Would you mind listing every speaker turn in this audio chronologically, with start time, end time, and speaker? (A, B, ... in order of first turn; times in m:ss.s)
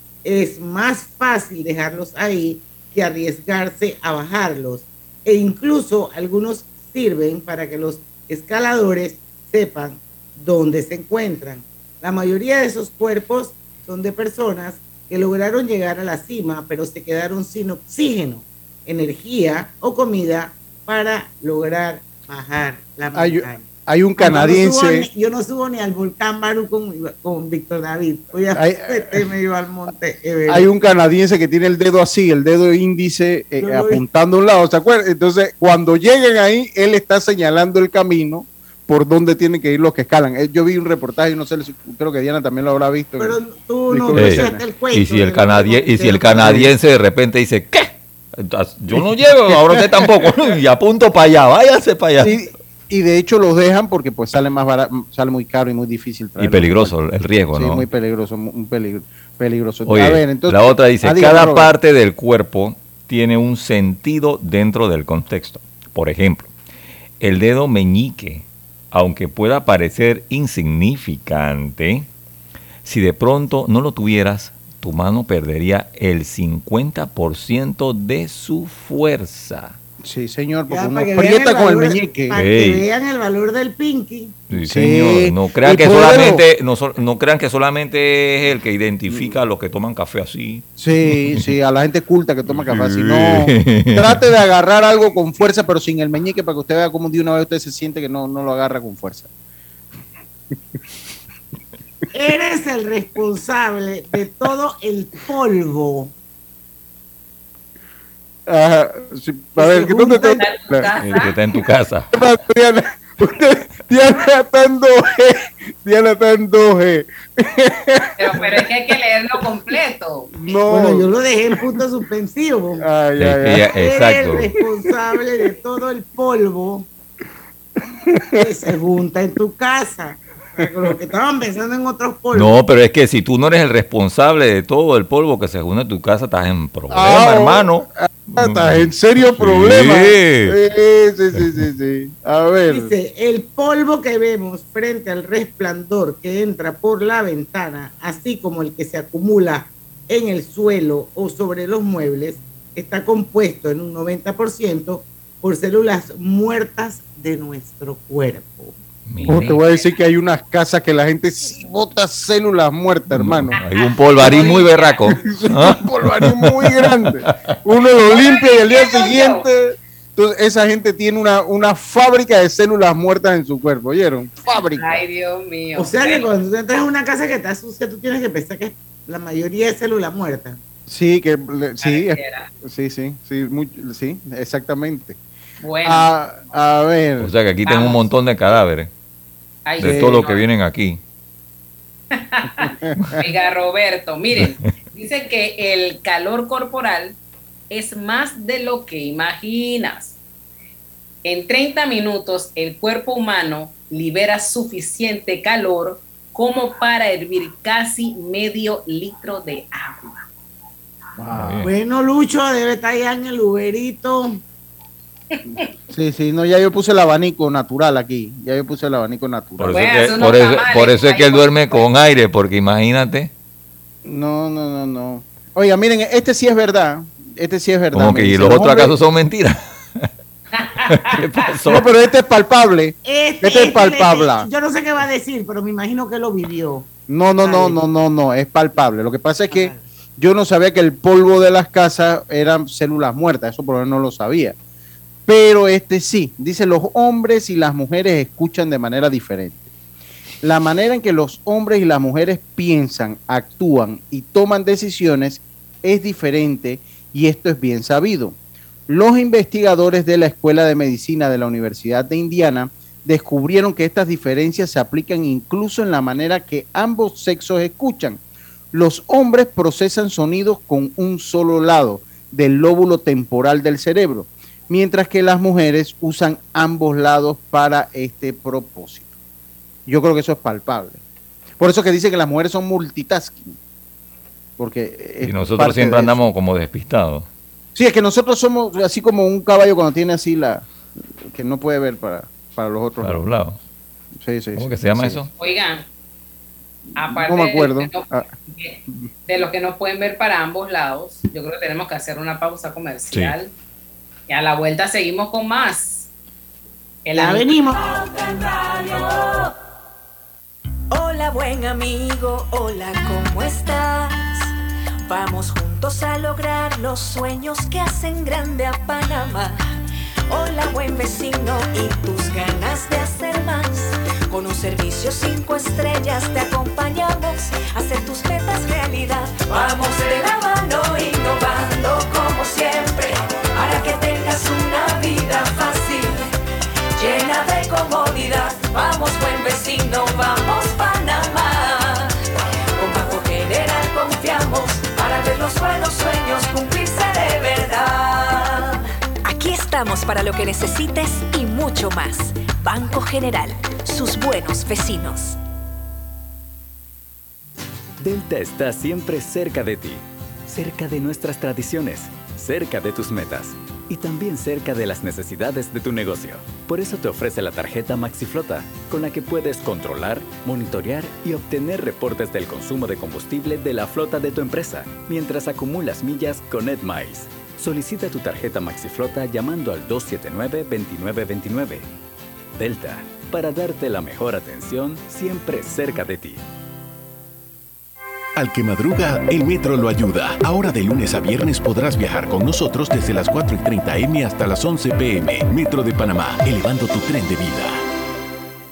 0:00.2-0:23.7 A
0:23.2-0:25.1 B
0:24.2-0:30.7 A
0:28.6-0:29.2 B
0:30.5-0:44.6 B
0:33.6-0:34.0 A
0:43.2-0:46.6 A
0:44.1-0:52.4 C
0:46.4-0:46.7 B
0:49.0-0:50.2 B
0:52.2-0:56.9 B
0:56.4-0:57.9 C
0:57.5-1:01.7 B
0:59.9-1:06.5 C
1:07.2-1:12.1 C
1:12.8-1:19.8 C
1:20.0-1:22.3 B
1:20.7-1:24.4 A
1:22.4-1:22.8 C
1:24.5-1:30.7 C
1:24.6-1:26.4 B
1:30.8-1:39.3 B
1:32.5-1:34.2 C
1:42.1-1:46.1 A
1:48.5-1:50.9 B
1:49.6-1:50.4 A
1:50.2-1:51.4 D
1:51.0-1:52.1 C
1:52.1-1:58.6 B
1:58.2-2:00.3 D
2:00.4-2:01.1 B
2:00.7-2:02.8 A
2:02.8-2:03.7 B
2:03.2-2:04.5 C
2:03.8-2:06.9 A
2:08.4-2:12.6 A
2:12.3-2:20.6 C
2:16.9-2:22.9 B
2:22.7-2:38.8 A
2:39.1-2:39.6 C
2:39.3-2:43.6 B
2:43.1-2:47.1 C
2:43.6-2:45.2 D
2:44.2-2:44.6 B
2:45.1-2:55.0 B
2:48.1-2:49.5 D
2:54.7-2:56.3 D
2:55.8-3:00.6 A
3:00.9-3:05.2 B
3:01.8-3:02.5 D
3:05.6-3:06.1 D
3:05.8-3:07.3 B
3:07.2-3:08.9 C
3:07.6-3:08.1 D
3:09.6-3:10.5 D
3:09.8-3:11.0 C
3:09.8-3:10.2 B
3:12.1-3:17.2 D
3:12.7-3:13.1 B
3:17.7-3:20.2 D
3:21.2-3:30.3 D
3:31.2-3:31.7 B
3:31.4-3:31.7 C
3:31.6-3:34.4 A
3:35.9-3:39.8 B
3:39.6-3:43.3 C
3:39.7-3:41.8 D
3:44.0-3:48.9 B
3:47.9-3:50.1 C
3:50.5-3:51.8 D
3:50.9-3:51.8 C
3:51.7-3:54.5 B
3:53.0-3:56.9 A
3:57.1-4:04.6 B
3:57.4-3:57.8 A
3:59.5-3:59.8 A
4:05.3-4:09.7 B
4:10.4-4:18.4 B
4:18.9-4:28.2 B
4:28.7-4:39.1 B
4:39.9-4:41.0 B
4:41.6-4:43.6 B
4:44.6-4:46.2 B
4:45.2-4:47.3 C
4:47.8-4:50.7 B
4:51.3-4:53.2 B
4:53.0-4:53.6 C
4:54.2-4:55.2 B
4:54.6-4:55.3 C
4:55.4-4:55.9 D
4:57.0-5:03.5 D
4:57.0-4:58.3 B
5:04.3-5:06.1 D
5:07.0-5:07.6 D
5:07.2-5:07.8 A
5:08.2-5:09.4 E
5:10.9-5:14.5 E
5:15.0-5:19.6 E
5:20.3-5:36.3 E
5:37.0-5:42.1 E
5:42.8-5:55.4 E
5:58.0-6:21.9 F
6:22.6-6:26.4 F
6:28.4-6:37.8 G